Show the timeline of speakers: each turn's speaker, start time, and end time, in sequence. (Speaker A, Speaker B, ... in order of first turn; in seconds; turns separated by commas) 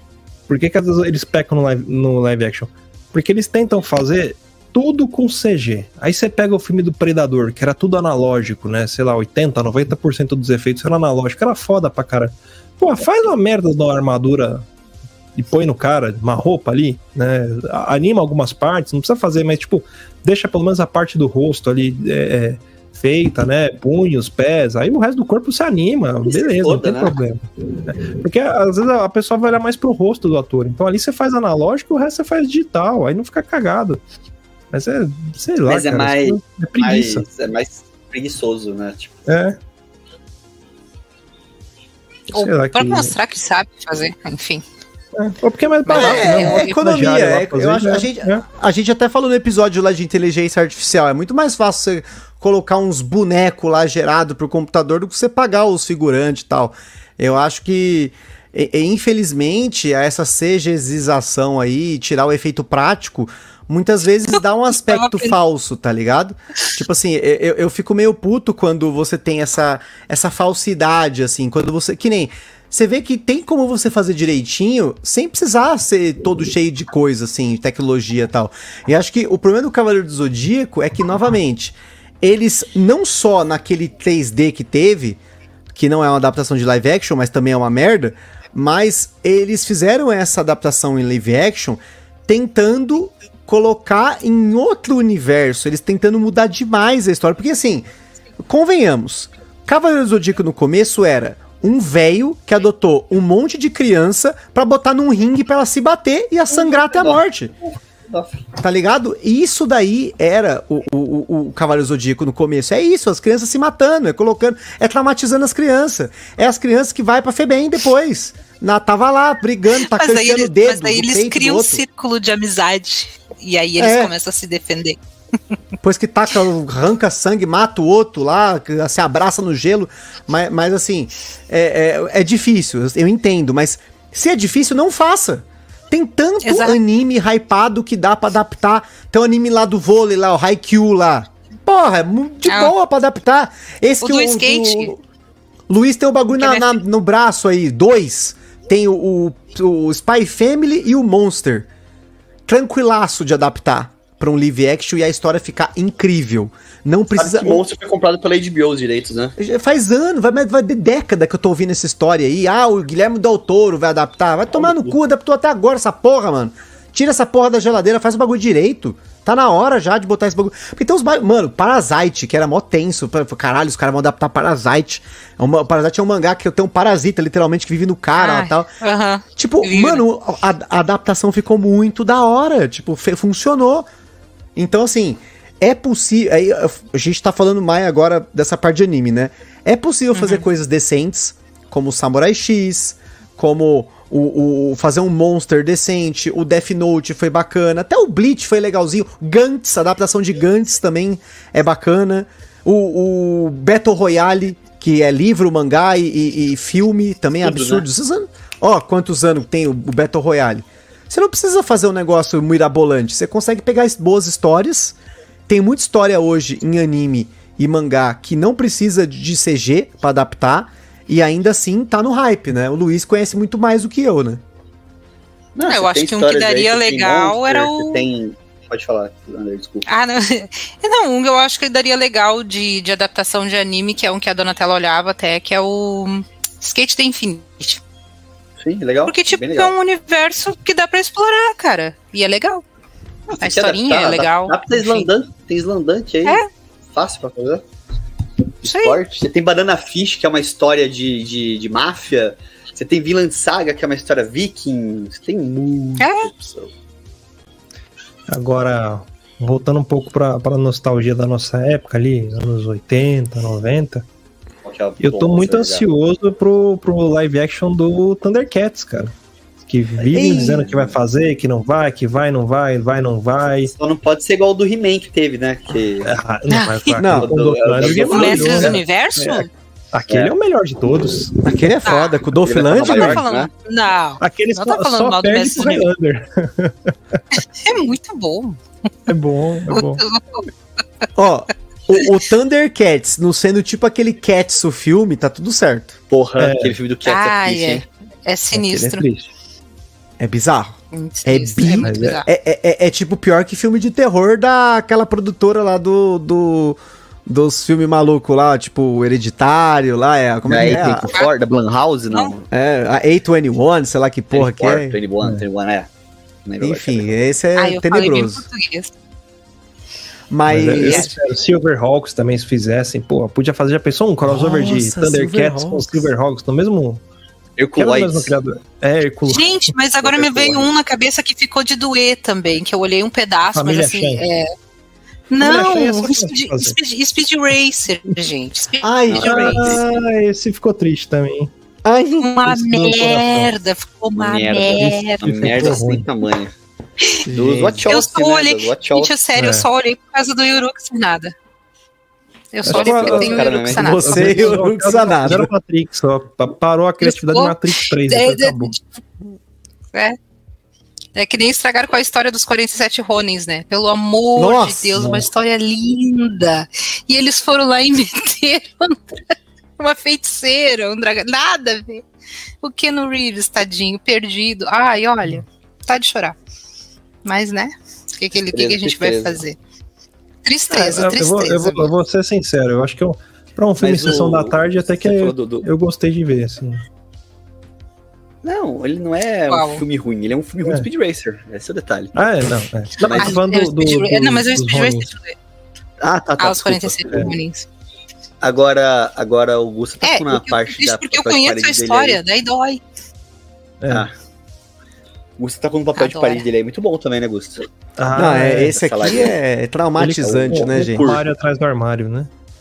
Speaker A: 0.5-14.7, Speaker A: 15.3-34.0, Speaker B: 26.2-27.2, Speaker A: 34.7-37.2, Speaker B: 35.6-39.2, Speaker A: 39.2-39.6, Speaker C: 42.3-44.6, Speaker A: 42.3-43.1, Speaker A: 45.1-48.4, Speaker C: 45.9-46.8, Speaker D: 45.9-85.2, Speaker C: 64.3-65.3, Speaker D: 85.7-97.8, Speaker D: 98.5-107.5, Speaker B: 106.5-107.2, Speaker B: 108.1-108.5, Speaker D: 108.6-121.8, Speaker C: 119.8-125.0, Speaker D: 123.8-124.1, Speaker D: 125.8-145.0, Speaker C: 136.4-136.8, Speaker C: 142.4-142.7, Speaker C: 144.0-144.9, Speaker D: 145.7-151.7, Speaker C: 146.3-146.8, Speaker D: 152.5-157.6, Speaker B: 157.2-159.3, Speaker D: 159.4-178.7, Speaker B: 164.6-164.9, Speaker C: 178.2-180.0, Speaker D: 179.3-183.9, Speaker D: 184.6-214.9, Speaker C: 190.1-190.4, Speaker B: 207.4-207.8, Speaker D: 215.5-224.4, Speaker B: 225.5-229.9, Speaker C: 225.6-228.1, Speaker C: 229.9-237.8, Speaker B: 238.6-239.7, Speaker C: 239.1-242.6, Speaker B: 243.3-246.4, Speaker C: 243.4-245.1, Speaker B: 246.9-247.6, Speaker B: 248.6-256.7, Speaker C: 248.7-249.0, Speaker C: 256.0-256.3, Speaker A: 258.3-264.1, Speaker B: 264.6-265.8, Speaker A: 265.0-269.1, Speaker A: 269.7-273.7, Speaker B: 270.0-270.9, Speaker D: 270.1-270.7, Speaker B: 273.7-276.1, Speaker A: 276.0-281.4, Speaker C: 276.5-276.9, Speaker D: 276.9-277.3, Speaker B: 277.0-278.8, Speaker C: 278.0-279.5, Speaker B: 280.1-280.3, Speaker D: 281.4-283.2, Speaker C: 281.8-285.9, Speaker B: 282.3-283.5, Speaker A: 284.2-287.4, Speaker C: 287.6-288.6, Speaker A: 289.1-290.0, Speaker C: 289.7-290.5, Speaker D: 291.1-296.0, Speaker B: 296.1-297.8, Speaker A: 296.4-296.8, Speaker C: 297.1-299.1, Speaker A: 298.5-299.3, Speaker D: 300.2-311.1, Speaker C: 300.9-302.3, Speaker A: 301.8-302.2, Speaker B: 310.4-312.4, Speaker D: 312.5-315.0, Speaker B: 314.3-315.9, Speaker B: 316.4-317.1, Speaker D: 316.6-318.4, Speaker C: 317.6-318.9, Speaker D: 320.3-321.1, Speaker A: 320.5-327.0, Speaker C: 320.8-321.1, Speaker D: 324.2-326.1, Speaker B: 327.6-328.3, Speaker A: 327.8-329.5, Speaker C: 329.3-334.5, Speaker B: 330.0-330.7, Speaker A: 333.5-334.2, Speaker C: 335.3-339.4, Speaker A: 335.4-336.8, Speaker D: 335.5-335.9, Speaker D: 338.8-339.8, Speaker B: 339.1-339.8, Speaker A: 339.2-341.5, Speaker D: 341.8-343.1, Speaker C: 342.2-345.3, Speaker A: 342.4-343.5, Speaker B: 344.1-346.5, Speaker A: 344.8-346.0, Speaker D: 347.2-347.9, Speaker B: 347.3-349.1, Speaker C: 347.9-351.3, Speaker A: 349.4-349.6, Speaker C: 352.5-354.5, Speaker A: 352.6-358.7, Speaker B: 352.7-354.0, Speaker D: 353.8-355.5, Speaker C: 357.0-358.8, Speaker C: 361.1-372.0, Speaker D: 364.4-365.0, Speaker A: 364.9-365.2, Speaker C: 372.6-376.4, Speaker C: 377.2-379.6, Speaker B: 378.5-379.4, Speaker C: 380.4-381.8, Speaker A: 380.7-386.8, Speaker B: 383.8-385.6, Speaker B: 388.4-392.1, Speaker C: 389.5-389.8, Speaker A: 392.1-395.1, Speaker B: 393.0-393.4, Speaker C: 393.1-395.4, Speaker B: 396.0-397.2, Speaker C: 396.4-397.7, Speaker B: 398.4-402.2, Speaker C: 400.0-402.8, Speaker A: 403.8-404.1, Speaker B: 405.4-407.6, Speaker C: 406.0-406.5, Speaker A: 408.0-408.8, Speaker D: 408.1-411.1, Speaker B: 408.7-409.3, Speaker A: 410.0-412.3, Speaker B: 410.2-411.2